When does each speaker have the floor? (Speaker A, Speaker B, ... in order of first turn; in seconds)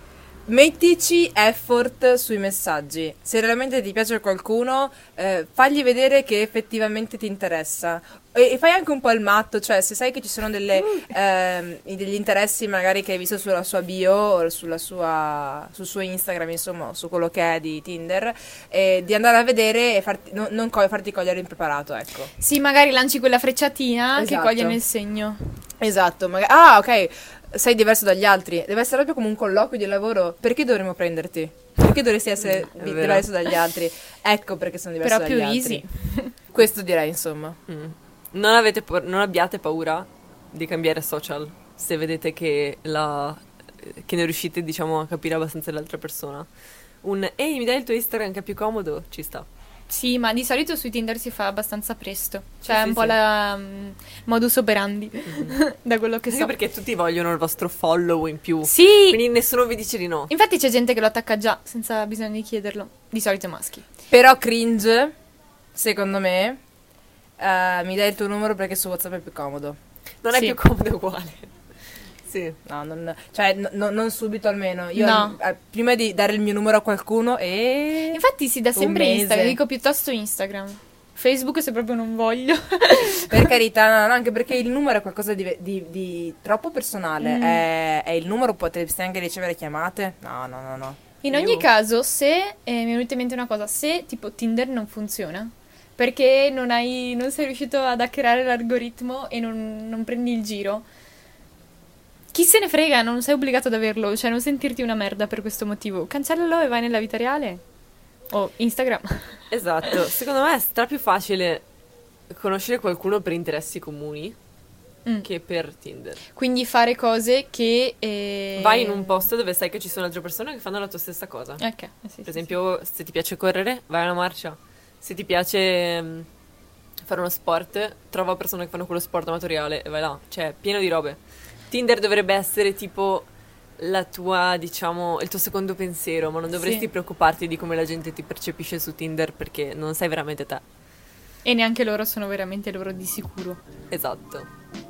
Speaker A: 0.5-22.3, 24.1-24.8, 25.8-35.8, 36.5-37.6, 64.1-65.1, 65.7-66.6, 67.4-69.8, 72.7-78.2, 78.8-79.6, 83.3-91.6
Speaker B: 22.4-25.6, 35.0-36.3, 49.9-56.5, 58.7-59.2, 60.3-63.9, 75.0-75.4, 78.1-83.5, 87.2-87.6, 91.2-100.8, 102.3-107.6, 108.3-109.4, 116.3-119.2, 121.6-122.4, 136.6-136.9, 141.4-143.6
Speaker C: 32.4-33.3, 37.7-46.5, 47.0-49.5, 52.6-53.2, 55.3-55.6, 56.3-60.3, 70.2-71.5, 72.3-72.6, 109.5-111.6, 112.3-114.4, 115.2-116.2, 118.6-121.6, 122.2-126.3, 127.0-131.2, 131.7-133.3, 133.8-140.6, 143.9-144.5